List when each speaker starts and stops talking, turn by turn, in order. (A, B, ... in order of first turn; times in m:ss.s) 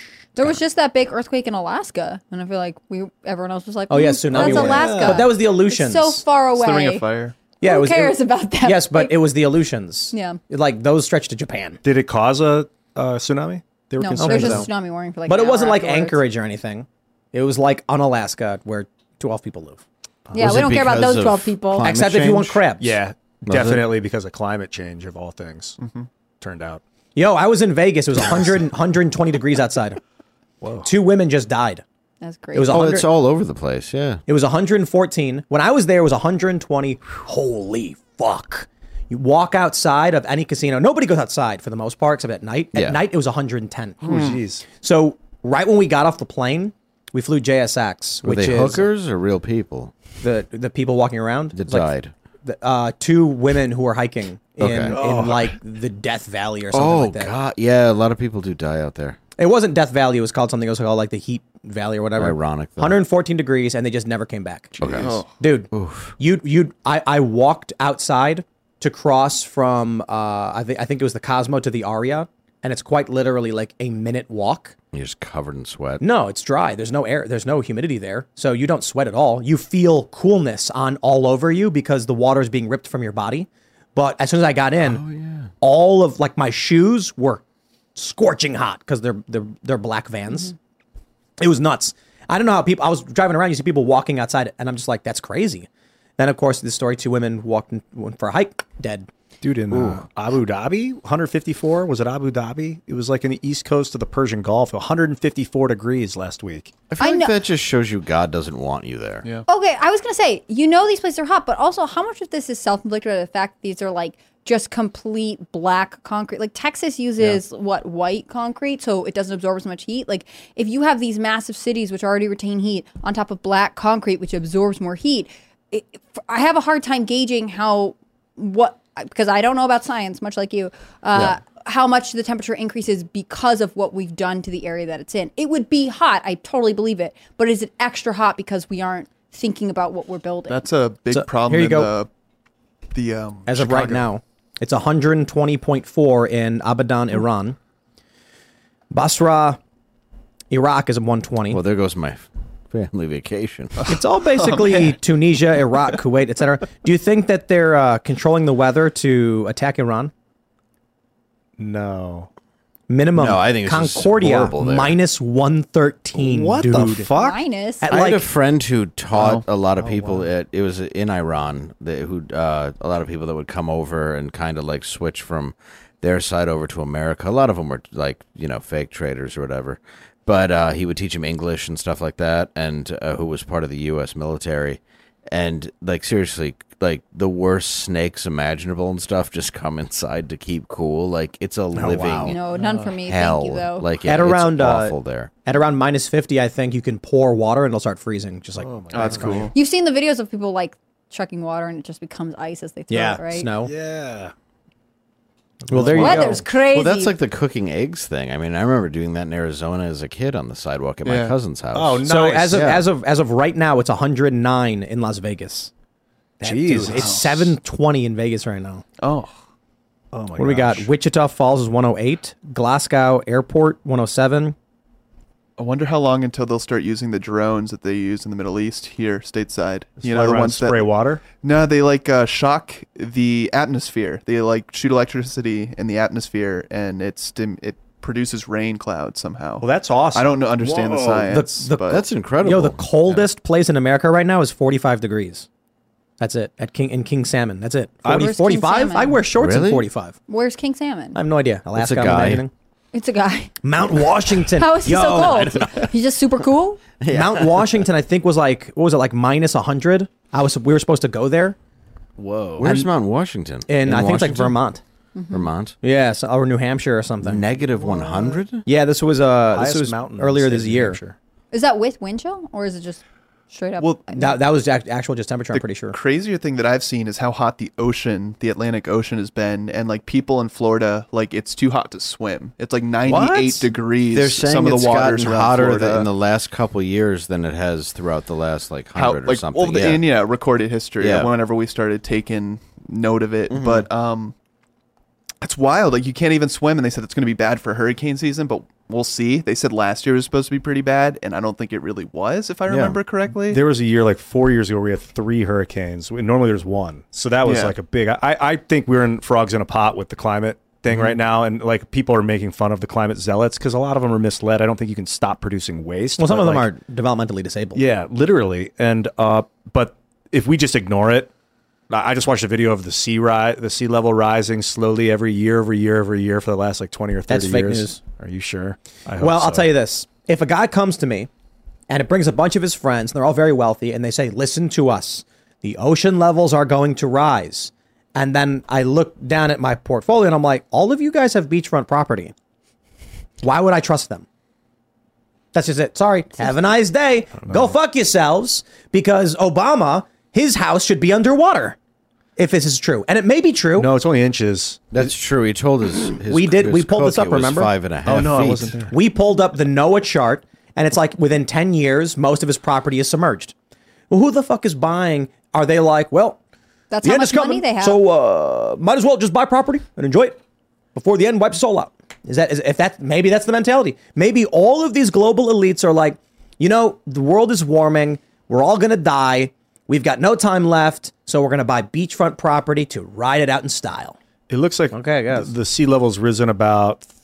0:00.4-0:07.1 A
0:03.9-0:06.2 B
0:04.3-0:05.3 C
0:06.5-0:07.4 D
0:07.6-0:11.8 B
0:07.6-0:09.1 A
0:10.1-0:10.4 A
0:11.8-0:14.7 C
0:14.0-0:16.2 A
0:14.2-0:14.7 B
0:15.3-0:19.8 B
0:20.3-0:21.9 A
0:20.4-0:22.6 E
0:21.8-0:23.0 B
0:22.8-0:25.8 C
0:23.5-0:23.9 E
0:25.8-0:26.1 D
0:26.4-0:26.8 C
0:27.2-0:30.0 B
0:30.6-0:30.9 C
0:30.8-0:31.8 B
0:32.2-0:32.9 A
0:32.5-0:33.1 B
0:32.7-0:34.2 E
0:34.3-0:48.9 B
0:42.7-0:43.0 E
0:44.0-0:44.7 C
0:44.1-0:44.4 D
0:48.2-0:49.9 E
0:50.2-0:51.9 B
0:51.5-0:52.1 E
0:52.4-0:57.3 B
0:54.6-0:55.0 E
0:54.9-0:55.4 C
0:56.7-0:59.2 E
0:59.4-1:14.8 B
1:02.2-1:03.0 E
1:04.8-1:05.1 E
1:04.9-1:05.3 D
1:05.7-1:06.2 E
1:14.9-1:16.0 E
1:16.0-1:25.0 B
1:24.8-1:25.5 E
1:25.6-1:27.4 B
1:28.0-1:30.5 B
1:31.4-1:39.1 B
1:39.4-1:46.7 C
1:39.7-1:40.0 E
1:46.9-1:49.3 E
1:47.0-1:47.4 A
1:49.5-2:20.6 A
2:20.5-2:22.1 D
2:21.1-2:21.9 B
2:22.9-2:24.1 D
2:23.5-2:27.6 B
2:28.9-2:29.6 B
2:30.5-2:31.6 B
2:31.5-2:33.8 E
2:33.8-2:35.0 D
2:33.9-2:40.1 B
2:41.6-2:42.3 C
2:42.9-2:47.1 B
2:43.2-2:45.0 E
2:46.2-2:47.4 C
2:47.1-2:47.9 A
2:47.8-2:48.3 B
2:47.9-3:12.4 E
2:49.8-2:50.3 C
3:11.7-3:12.9 C
3:12.2-3:13.9 A
3:13.0-3:15.3 E
3:14.0-3:14.9 B
3:15.5-3:19.5 B
3:18.6-3:19.5 C
3:18.9-3:19.5 D
3:19.5-3:23.5 A
3:22.9-3:23.7 B
3:23.6-3:24.3 C
3:25.7-3:26.4 C
3:25.7-3:26.4 B
3:26.0-3:27.2 A
3:26.7-3:32.9 E
3:31.0-3:31.4 D
3:31.7-3:32.8 C
3:32.0-3:35.7 B
3:36.4-3:37.4 C
3:36.4-3:38.8 B
3:36.9-3:37.4 D
3:39.0-3:39.4 D
3:40.1-3:40.9 C
3:40.4-3:44.6 B
3:45.6-4:02.0 D
3:50.0-3:51.2 C
3:59.6-4:01.3 C
4:01.3-4:05.5 B
4:01.9-4:03.2 E
4:06.2-4:10.2 B
4:08.0-4:09.2 A
4:09.4-4:09.9 E
4:10.3-4:11.2 A
4:11.2-4:12.5 B
4:11.7-4:12.4 E
4:12.9-4:13.6 A
4:13.6-4:15.7 B
4:14.6-4:16.8 A
4:15.1-4:15.9 E
4:17.0-4:17.8 E
4:17.1-4:21.6 B
4:22.2-4:24.6 E
4:22.6-4:22.9 B
4:23.7-4:24.8 B
4:25.2-4:25.5 A
4:25.3-4:25.8 E
4:25.8-4:27.5 B
4:27.2-4:28.7 E
4:28.6-4:31.0 B
4:29.5-4:31.2 C
4:31.5-4:34.4 A
4:33.8-4:34.0 D
4:34.1-4:36.0 B
4:35.5-4:46.1 D
4:43.1-4:43.6 B
4:44.1-4:50.0 E
4:49.0-4:54.4 D
4:51.0-4:51.3 E
4:53.5-4:53.9 E
4:55.4-5:03.6 D
5:02.7-5:03.0 E
5:03.5-5:16.7 C
5:07.4-5:07.8 D
5:16.2-5:17.8 B
5:17.8-5:21.3 C
5:21.9-5:29.7 C
5:27.3-5:28.0 B
5:29.2-5:31.3 B
5:31.9-5:42.3 B
5:43.4-5:44.2 B
5:45.5-5:51.8 B
5:47.4-5:47.8 C
5:52.4-5:54.0 B
5:53.8-5:55.0 C
5:54.9-5:58.8 E
5:56.3-5:57.7 B
5:58.1-5:58.9 C
5:58.9-6:03.6 B
6:04.1-6:06.4 B
6:06.9-6:08.0 A
6:07.0-6:10.4 B
6:11.0-6:24.2 B
6:24.5-6:27.1 C
6:24.9-6:25.5 B